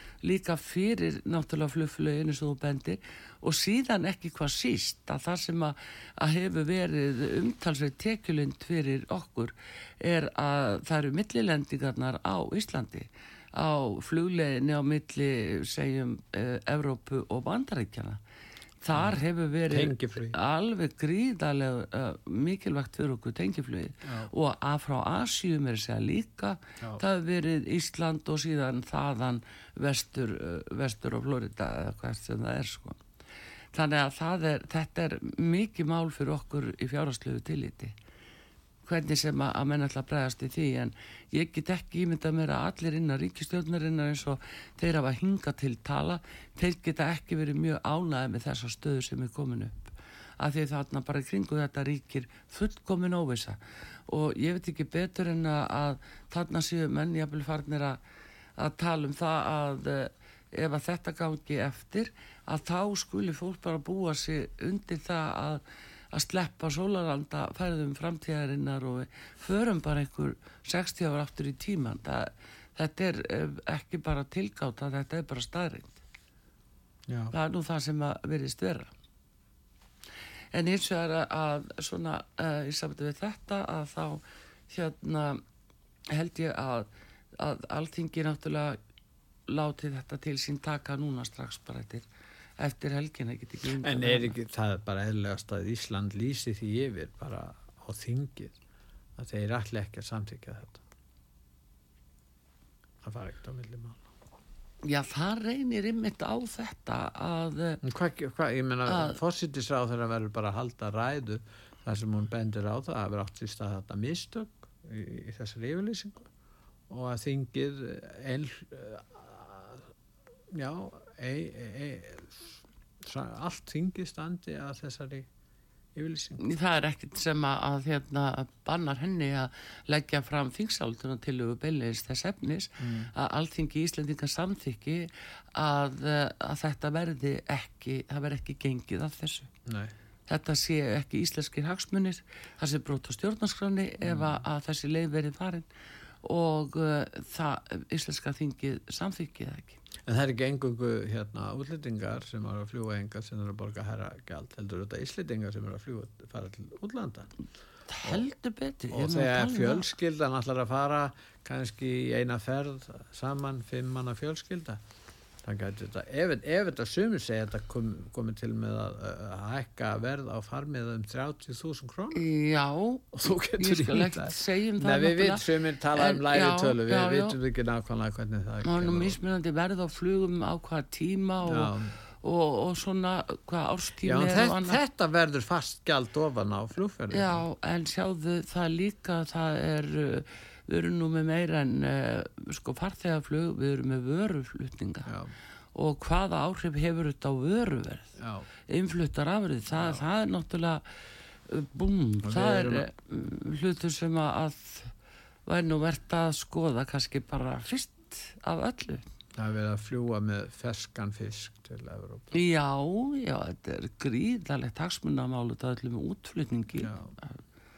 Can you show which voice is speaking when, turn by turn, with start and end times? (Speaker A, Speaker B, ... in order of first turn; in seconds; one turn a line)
Speaker A: 0.2-18.2
Speaker A: 18.8-33.0
Speaker B: 18.9-20.4
Speaker B: 24.1-24.3
Speaker A: 33.7-38.0
Speaker A: 38.9-58.0
Speaker A: 58.6-76.0
Speaker B: 77.1-77.3
Speaker A: 77.3-78.9
Speaker A: 80.5-85.4
Speaker A: 86.1-86.9
Speaker A: 87.4-88.8
Speaker A: 89.5-92.1
Speaker A: 92.6-94.3
Speaker B: 93.8-98.6
Speaker B: 99.2-100.8
Speaker B: 103.0-104.0
Speaker A: 104.8-107.8
Speaker B: 107.8-116.3
Speaker A: 108.9-109.2
Speaker B: 116.9-119.8
Speaker B: 120.5-125.3
Speaker B: 126.0-126.5
Speaker A: 126.4-139.5
Speaker B: 132.8-133.1
Speaker B: 139.7-139.9
Speaker A: 140.3-145.7
Speaker B: 144.0-144.4
Speaker A: 146.2-149.8
Speaker B: 150.1-157.3
Speaker A: 157.9-159.9
Speaker B: 158.9-164.8
Speaker B: 165.4-172.3
Speaker A: 172.1-177.4
Speaker B: 173.1-179.2
Speaker A: 178.6-184.8
Speaker B: 181.5-181.9
Speaker B: 184.0-187.4
Speaker A: 187.1-195.1
Speaker B: 195.1-195.3
Speaker A: 195.8-198.2
Speaker B: 198.2-198.5
Speaker A: 198.7-200.8
Speaker B: 199.7-200.0
Speaker A: 201.5-204.9
Speaker B: 202.2-202.9
Speaker A: 205.5-209.1
Speaker B: 209.4-212.3
Speaker A: 212.3-217.4
Speaker B: 216.8-217.1